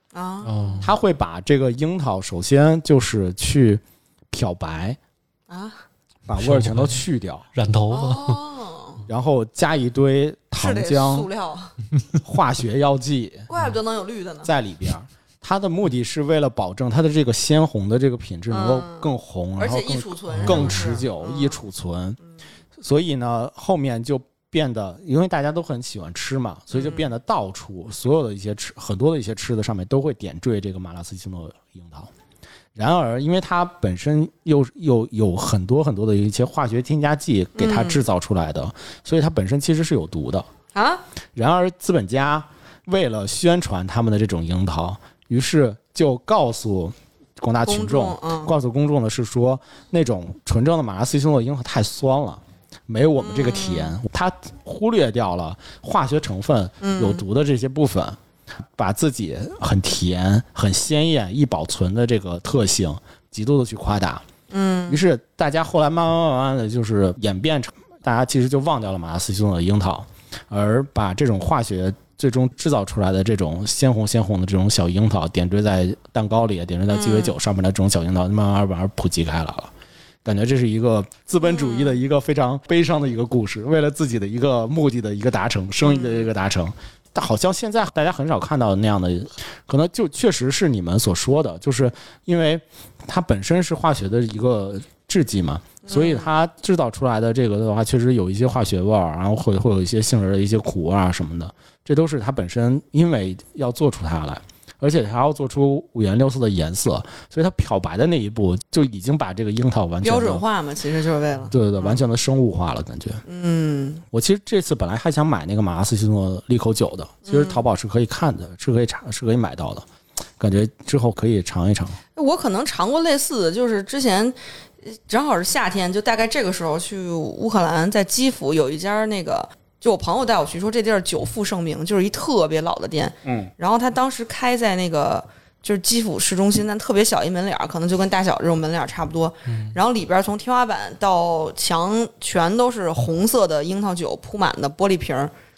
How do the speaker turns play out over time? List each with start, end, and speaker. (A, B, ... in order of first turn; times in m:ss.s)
0:00.1-0:00.9 A
0:00.4-0:00.9 B
0:00.8-0:05.0 C
0:05.5-0:05.8 A
0:06.3-0:07.5 C
0:06.4-0:07.0 B
0:07.5-0:08.4 B
0:07.9-0:09.0 A
0:09.1-0:11.3 C
0:10.6-0:11.8 A
0:12.1-0:13.5 C
0:13.5-0:14.5 A
0:14.4-0:22.2 C
0:18.5-0:21.6 A
0:20.3-0:21.0 B
0:22.8-0:32.1 C
0:26.7-0:27.0 A
0:32.7-0:40.5 C
0:37.6-0:38.0 A
0:40.7-0:41.0 A
0:41.3-0:58.2 C
0:47.6-0:48.5 A
0:53.2-0:53.9 A
0:56.8-0:57.2 A
0:58.8-1:04.2 C
1:04.5-1:05.0 A
1:04.9-1:19.7 C
1:16.9-1:17.3 A
1:20.2-1:50.4 C
1:21.4-1:22.0 A
1:25.8-1:26.2 A
1:35.8-1:36.3 A
1:50.0-1:52.0 A
1:51.5-1:53.2 C
1:53.3-1:54.0 A
1:54.1-1:59.8 C
1:57.2-1:57.6 A
2:00.4-2:02.0 C
2:02.1-2:25.3 A
2:13.2-2:13.5 C
2:19.5-2:19.7 B